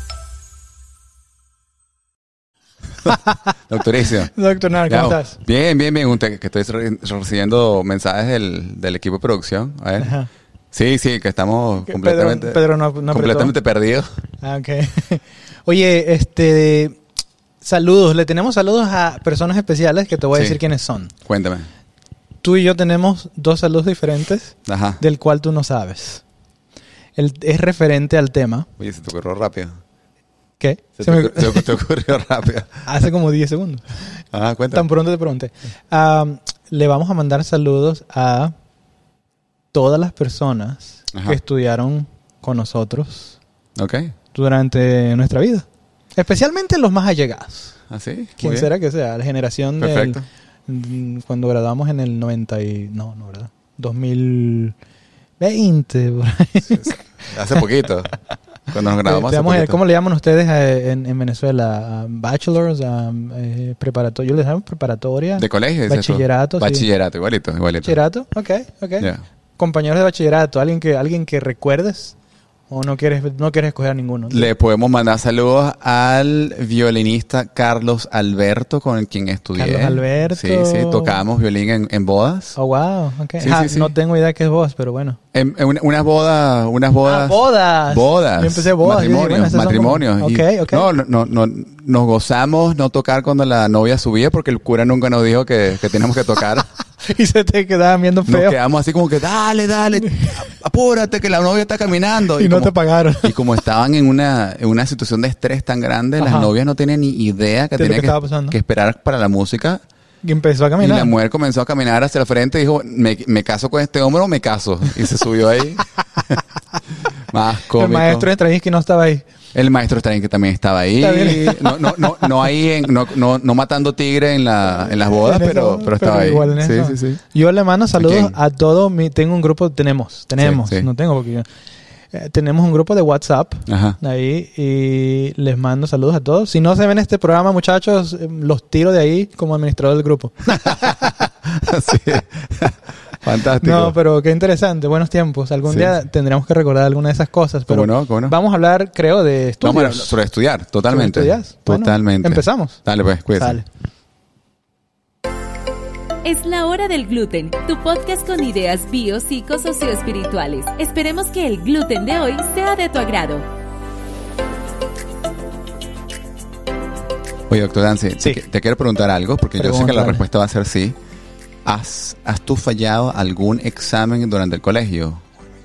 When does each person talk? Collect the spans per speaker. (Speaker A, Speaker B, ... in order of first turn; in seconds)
Speaker A: 3.0-10.2, 10.7-14.1, 20.3-20.6, 21.2-21.7, 24.7-25.0, 28.8-29.8, 31.0-32.9, 34.3-34.9, 41.1-41.4, 43.8-44.1, 47.9-48.7, 49.8-50.3, 56.7-58.1, 58.7-59.8, 65.4-68.0, 74.3-82.6, 83.4-83.9, 85.3-96.7, 98.3-109.8, 110.8-116.4, 117.3-118.3, 119.5-127.2, 128.0-128.4, 130.4-130.9, 133.7-134.0, 140.5-140.8, 141.4-143.9, 145.7-145.9, 147.7-148.4, 149.6-153.6, 167.5-171.0, 171.7-175.2
Speaker B: 4.3-5.4, 10.0-10.3, 11.9-13.5, 14.4-17.0, 17.6-21.1, 22.4-26.2, 27.2-28.7, 30.6-31.7, 32.9-34.0, 34.7-38.5, 39.7-43.4, 44.3-47.8, 48.4-54.8, 55.4-57.0, 59.0-66.9, 67.8-72.2, 72.7-74.5, 79.5-81.2, 82.6-85.2, 87.0-90.9, 97.0-98.6, 102.3-103.4, 106.2-106.5, 107.8-108.6, 110.2-111.1, 117.8-119.3, 121.0-122.5, 125.1-131.5, 132.1-141.1, 143.6-150.2, 150.9-153.7, 169.6-170.3
Speaker C: 156.2-163.4